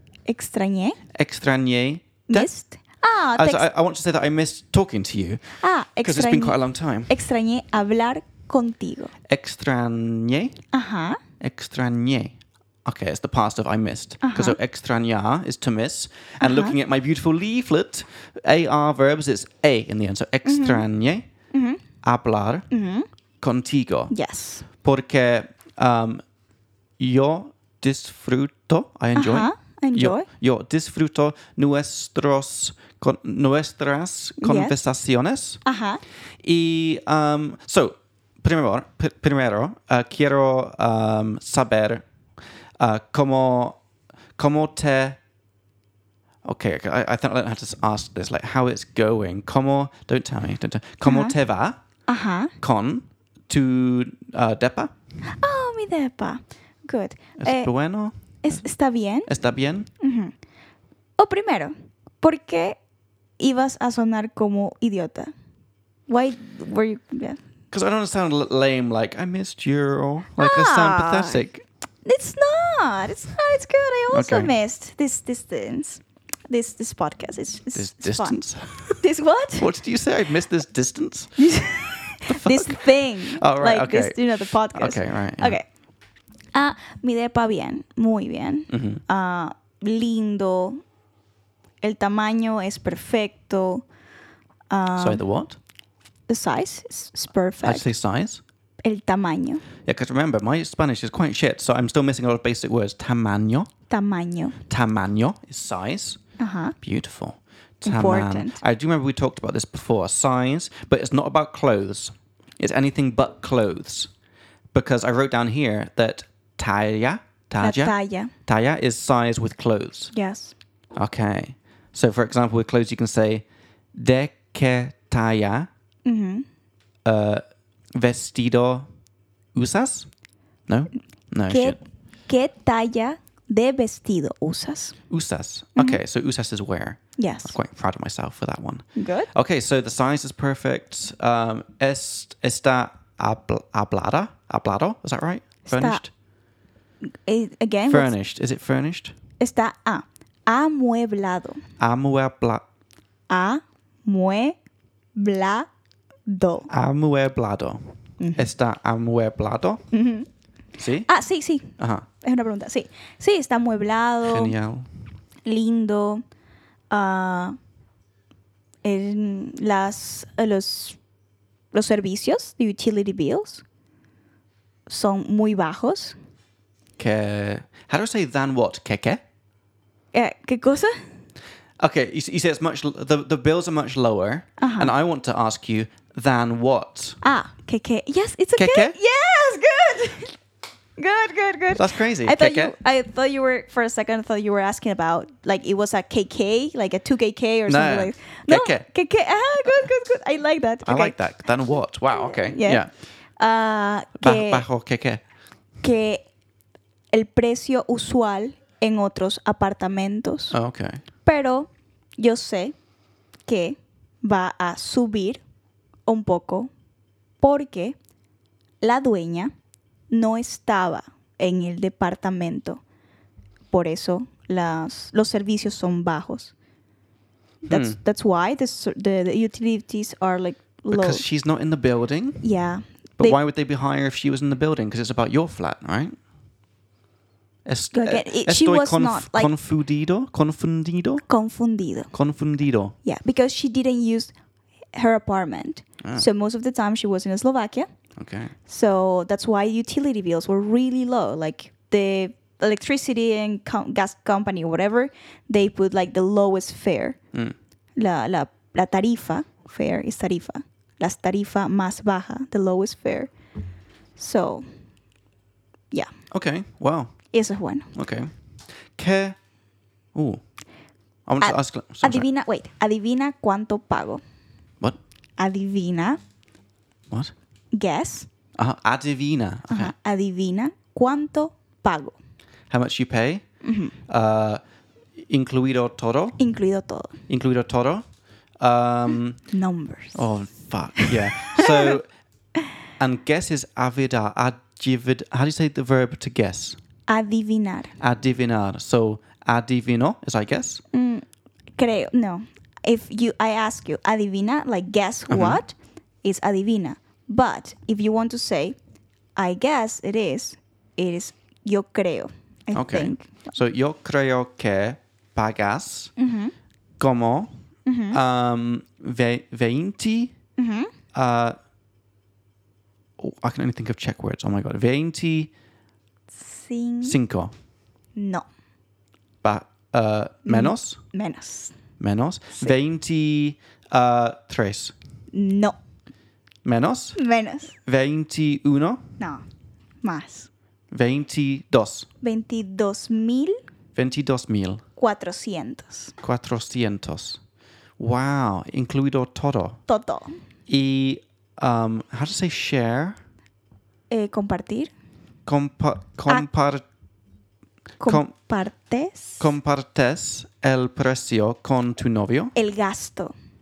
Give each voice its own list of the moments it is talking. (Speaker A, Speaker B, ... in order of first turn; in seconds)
Speaker A: 0.3-1.0, 2.3-3.6, 5.6-6.5, 7.1-9.1, 10.7-11.2, 14.2-14.6, 16.4-16.8, 20.4-20.8, 21.5-21.8, 22.7-23.1, 24.1-24.6, 29.1-30.3, 34.4-34.8, 35.6-36.0, 51.0-51.3, 52.1-52.5, 55.2-57.7, 58.4-59.3, 60.0-60.3, 61.2-62.8, 63.4-65.3, 66.1-67.4, 70.4-71.4, 72.0-79.7, 81.4-85.6, 86.5-90.8, 91.8-93.8, 94.7-95.2, 96.3-97.9, 98.8-99.6, 103.9-104.6, 106.4-106.7, 107.8-108.6, 117.6-118.3, 120.1-120.5, 126.0-126.5, 131.5-134.9, 135.8-136.0, 137.2-137.6, 138.9-139.3, 145.7-146.0, 147.2-148.1, 149.4-151.6, 153.3-154.6, 155.2-155.7, 156.3-156.7, 158.2-158.5, 159.9-160.3, 161.0-164.5, 165.4-166.2, 166.9-167.6, 168.8-171.0, 171.7-173.6, 174.9-176.1, 180.1-181.1, 184.6-184.9, 187.2-190.4, 191.0-201.2, 202.1-202.8, 203.4-204.7, 205.8-206.2, 207.1-210.5, 211.2-212.8, 213.5-215.4, 216.1-216.7, 217.4-217.9, 218.8-219.5, 220.1-222.8, 223.7-226.5, 227.6-231.2, 232.4-233.4, 237.9-239.5, 241.3-242.1, 243.0-244.3, 244.9-247.9, 248.7-257.2, 258.0-263.3, 264.2-264.6, 267.3-267.9, 271.4-274.2, 275.4-276.2, 277.7-278.3, 279.7-282.1, 283.6-283.9, 286.4-287.1, 289.5-290.2, 291.0-292.0, 297.1-297.9, 300.9-308.8, 309.4-313.5, 316.2-316.5, 317.9-318.2, 320.6-320.9, 326.3-327.2, 328.1-328.4, 330.4-331.8, 335.3-335.8, 337.1-337.7, 340.0-340.5, 342.2-343.6, 345.0-346.1, 349.9-350.4, 354.1-354.9, 358.0-359.4, 362.5-363.3
Speaker B: 1.1-2.5, 3.3-5.4, 6.0-7.1, 9.3-10.6, 11.4-21.2, 22.0-22.7, 23.4-24.1, 24.8-26.2, 27.0-35.6, 36.4-42.0, 42.8-43.8, 44.4-45.2, 46.4-51.8, 52.6-54.9, 57.4-58.6, 59.3-59.9, 67.7-71.6, 74.1-74.5, 77.7-79.0, 79.6-81.4, 82.3-85.6, 88.7-89.0, 95.0-95.6, 97.6-98.4, 99.8-103.7, 104.7-106.2, 106.8-114.1, 114.7-117.9, 118.5-120.1, 120.9-125.7, 127.0-127.4, 127.9-128.8, 129.5-130.1, 130.7-131.8, 135.1-146.1, 147.9-149.1, 151.8-152.6, 156.7-159.8, 160.8-161.1, 161.8-162.1, 164.2-164.9, 177.0-179.2, 181.8-187.2, 188.6-188.9, 191.7-192.7, 197.7-198.8, 200.8-202.9, 204.2-205.2, 210.5-211.0, 227.7-228.0, 230.9-232.4, 233.2-236.2, 237.7-241.2, 242.1-242.9, 248.2-248.5, 266.3-267.1, 267.9-268.3, 268.9-269.4, 270.1-270.4, 271.3-272.2, 278.6-279.9, 282.7-283.4, 284.1-284.6, 285.2-286.4, 287.3-288.0, 288.6-289.4, 290.1-292.1, 293.0-296.8, 298.0-300.8, 305.3-305.6, 312.7-316.1, 317.0-317.5, 318.1-320.3, 321.1-321.6, 323.2-325.5, 327.0-327.5, 329.4-331.0, 332.0-334.9, 336.6-337.2, 337.9-339.0, 340.9-342.1, 343.9-344.8, 346.2-347.4, 348.0-349.8, 350.7-353.2, 355.4-356.8, 358.0-358.3, 359.4-362.5